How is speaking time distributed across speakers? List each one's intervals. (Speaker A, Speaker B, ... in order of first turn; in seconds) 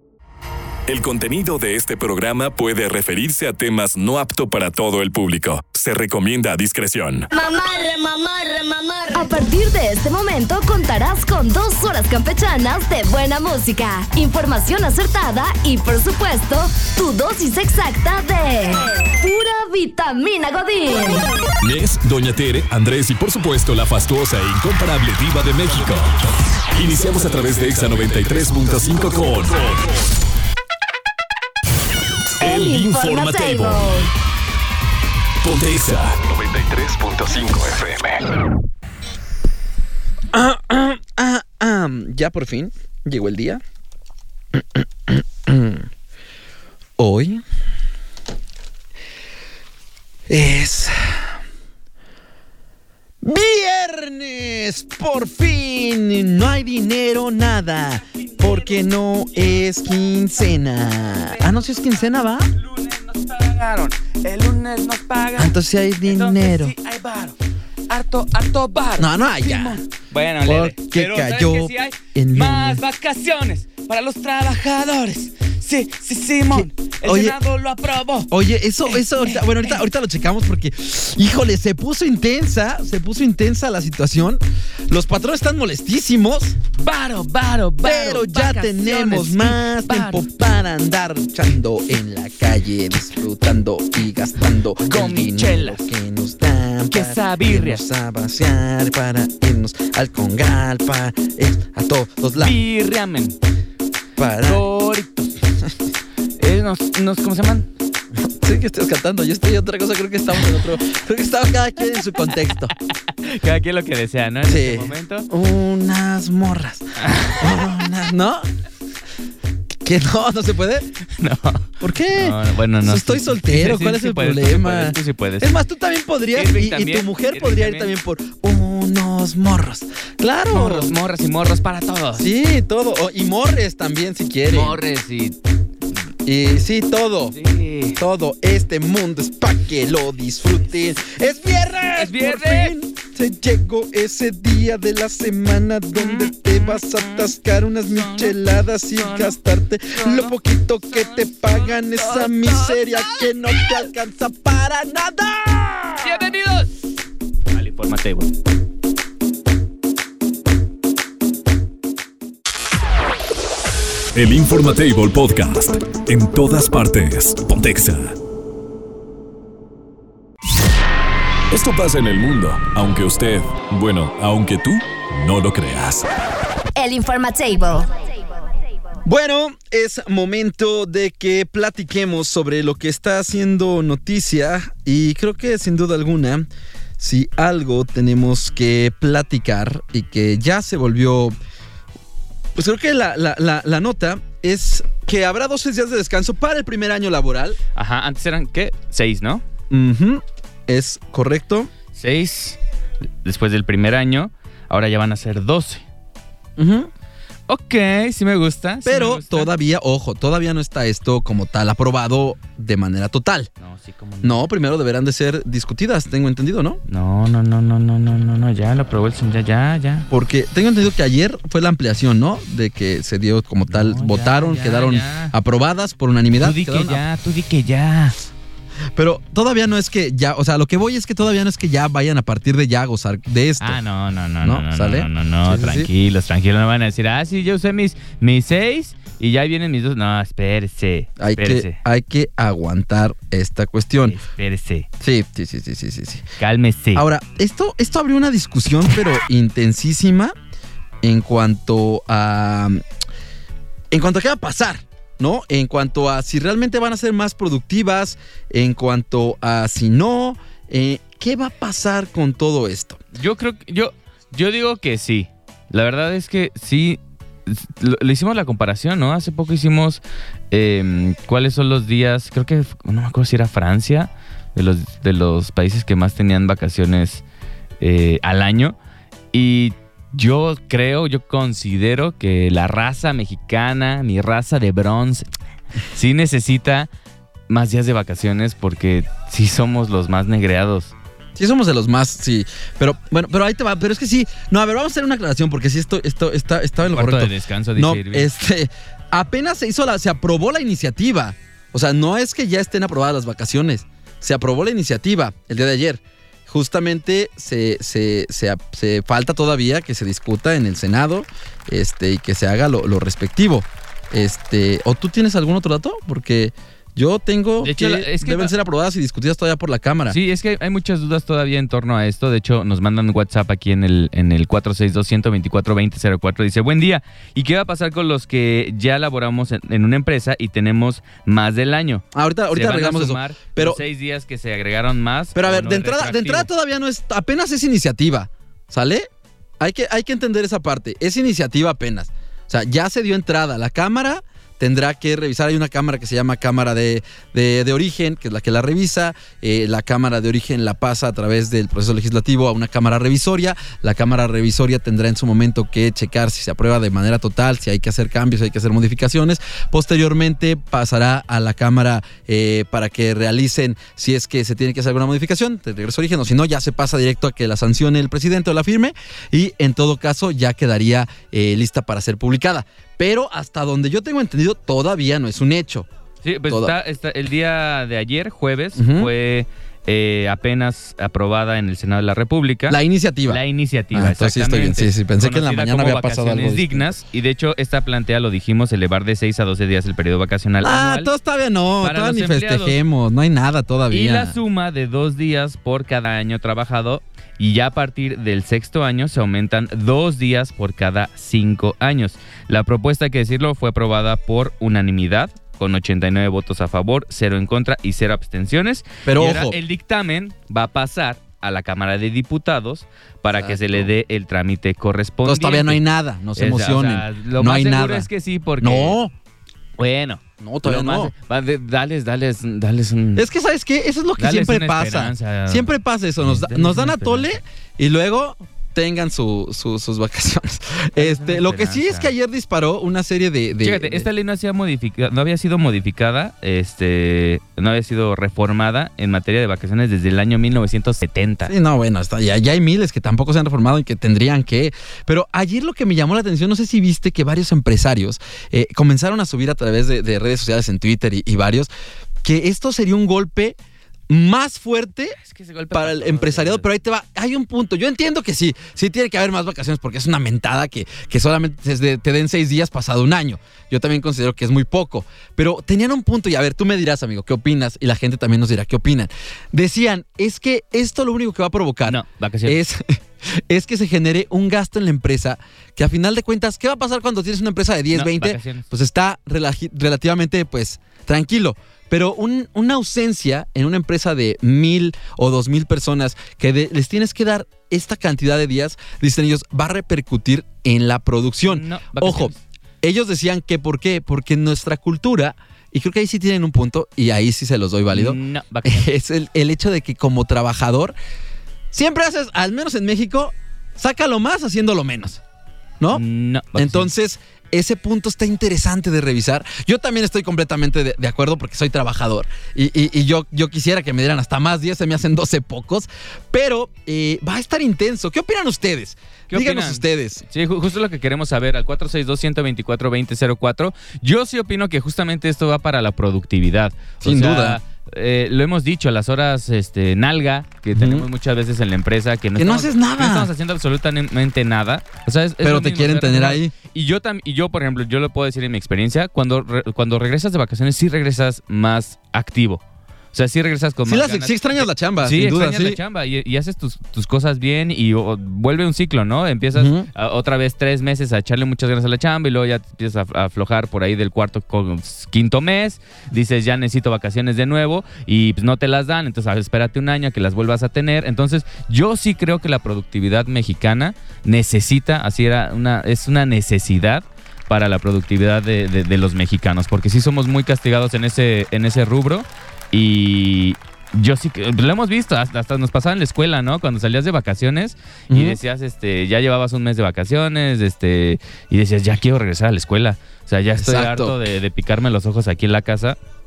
Speaker A: 0.9-7.3, 21.6-26.2, 26.7-29.9, 32.4-34.0, 35.4-38.3, 164.1-168.2, 171.5-176.1
Speaker B: 7.3-9.4
Speaker C: 9.1-21.3, 32.4-34.1, 176.8-177.9
Speaker D: 40.3-43.6, 44.5-45.9, 47.0-47.4, 50.3-51.1, 53.2-62.5, 65.4-66.7, 69.0-69.8, 70.4-72.8, 76.5-77.4, 78.3-86.5, 87.8-102.6, 104.2-104.6, 108.4-112.7, 114.5-118.5, 119.8-120.9, 121.8-130.9, 132.2-134.8, 136.2-137.3, 138.0-156.3, 179.0-186.4, 187.0-191.4, 192.6-197.6, 199.7-201.7, 206.6-206.9, 208.8-213.5, 214.2-216.8, 220.1-227.0, 228.9-233.8, 234.4-235.9, 241.2-244.2, 245.0-246.2, 246.9-250.3, 251.0-252.8, 253.9-263.0, 291.4-320.2, 332.1-333.8, 335.3-339.1, 339.6-375.9, 376.5-376.7, 378.8-379.1, 382.7-383.4, 383.9-386.9, 390.6-394.4, 409.1-409.6, 413.4-413.9, 415.2-418.1, 418.6-419.1, 420.4-421.1, 423.1-434.1, 441.4-451.7, 452.2-453.6, 454.1-455.2, 455.7-500.9, 501.7-505.2, 506.6-520.2, 527.0-527.6, 530.7-531.1, 532.4-533.3, 535.4-536.5, 543.9-545.8, 549.5-549.9, 578.1-578.4, 583.6-584.2
Speaker E: 58.2-58.8, 59.3-59.6, 61.3-61.8, 62.5-67.4, 67.9-78.3, 78.8-79.8, 86.8-90.3, 94.8-95.8, 96.9-97.8, 102.3-103.3, 104.4-105.4, 106.4-107.7, 111.9-112.3, 113.2-115.3, 117.0-118.0, 121.2-125.5, 126.3-127.9, 130.5-132.2, 134.5-135.4, 137.3-138.0, 141.9-142.7, 145.9-147.3, 147.9-148.4, 149.0-149.4, 149.9-153.8, 156.0-156.7, 157.5-158.3, 197.7-199.4, 201.9-202.6, 203.2-205.8, 207.5-209.5, 213.6-214.5, 216.9-220.1, 223.7-225.3, 226.4-228.2, 233.6-241.8, 244.0-244.9, 246.4-247.1, 263.1-277.2, 277.8-278.8, 279.3-285.2, 285.9-286.9, 287.5-290.9, 296.8-298.3, 317.6-318.5, 320.1-336.5, 376.2-391.1, 391.8-392.8, 393.9-415.8, 416.4-419.0, 419.8-423.3, 424.2-427.3, 431.0-432.1, 433.6-441.5, 455.1-456.7, 471.9-472.6, 477.9-478.7, 491.4-492.4, 497.9-498.9, 505.9-506.9, 519.3-542.6, 543.1-586.0